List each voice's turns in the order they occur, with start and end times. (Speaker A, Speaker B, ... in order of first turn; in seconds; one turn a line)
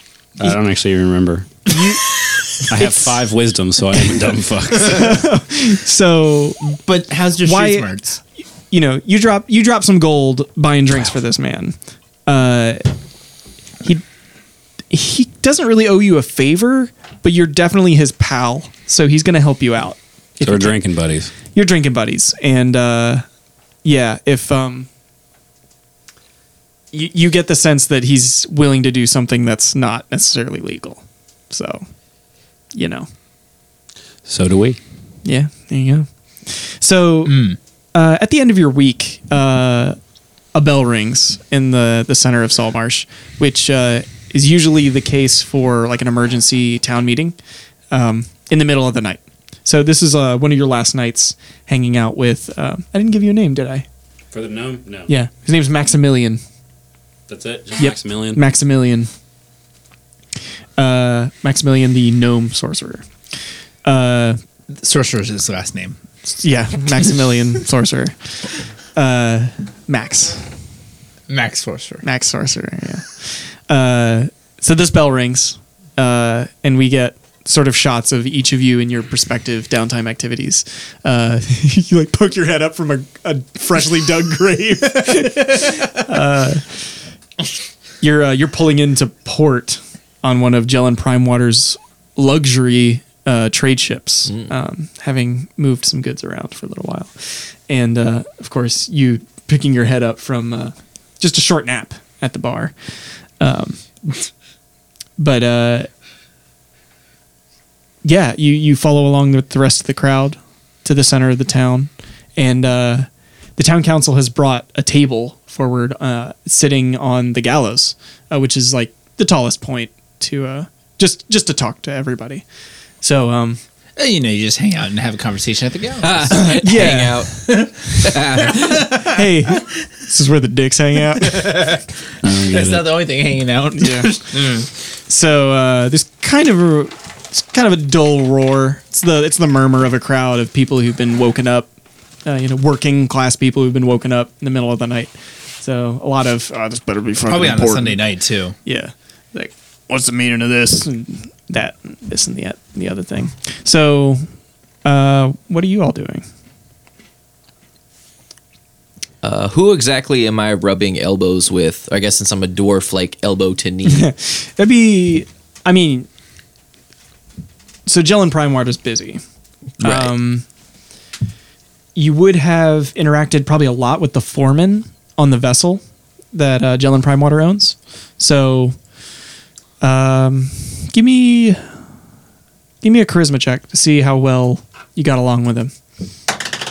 Speaker A: 0.4-1.7
Speaker B: 1.7-2.0
Speaker A: 2.7-5.2
Speaker B: 4.8-6.8
Speaker C: 6.8-8.2
Speaker B: 7.4-7.9
Speaker B: 8.7-11.8
Speaker B: 12.3-12.9
Speaker B: 14.9-20.8
Speaker A: 20.4-21.3
Speaker B: 21.5-23.2
Speaker B: 23.8-24.9
Speaker B: 26.9-31.9
Speaker B: 32.7-33.1
Speaker A: 34.3-34.8
Speaker B: 35.2-40.0
Speaker C: 37.3-37.6
Speaker B: 40.5-47.4
Speaker B: 47.9-53.9
Speaker A: 54.3-55.1
Speaker B: 55.1-56.4
Speaker A: 57.3-58.4
Speaker B: 57.8-59.1
Speaker B: 60.8-63.1
Speaker B: 63.8-64.4
Speaker C: 64.8-66.0
Speaker B: 66.4-68.2
Speaker B: 69.0-70.4
Speaker C: 71.3-72.0
Speaker B: 72.0-86.8
Speaker B: 88.0-97.1
Speaker B: 97.7-102.7
Speaker B: 103.4-103.8
Speaker B: 105.2-105.9
Speaker B: 108.0-122.5
Speaker B: 123.0-123.6
Speaker C: 124.0-126.6
Speaker D: 126.0-128.9
Speaker B: 126.5-127.2
Speaker C: 127.5-129.2
Speaker B: 129.0-131.6
Speaker C: 131.2-134.7
Speaker A: 132.2-133.0
Speaker B: 133.8-134.2
Speaker B: 135.1-141.7
Speaker B: 142.2-148.0
Speaker C: 147.3-148.6
Speaker B: 148.7-154.2
Speaker B: 154.8-156.2
Speaker D: 159.2-164.1
Speaker B: 163.9-166.1
Speaker B: 167.9-169.2
Speaker D: 169.8-170.1
Speaker B: 169.8-170.4
Speaker B: 172.0-175.8
Speaker B: 176.3-178.8
Speaker B: 179.8-181.6
Speaker B: 182.8-185.7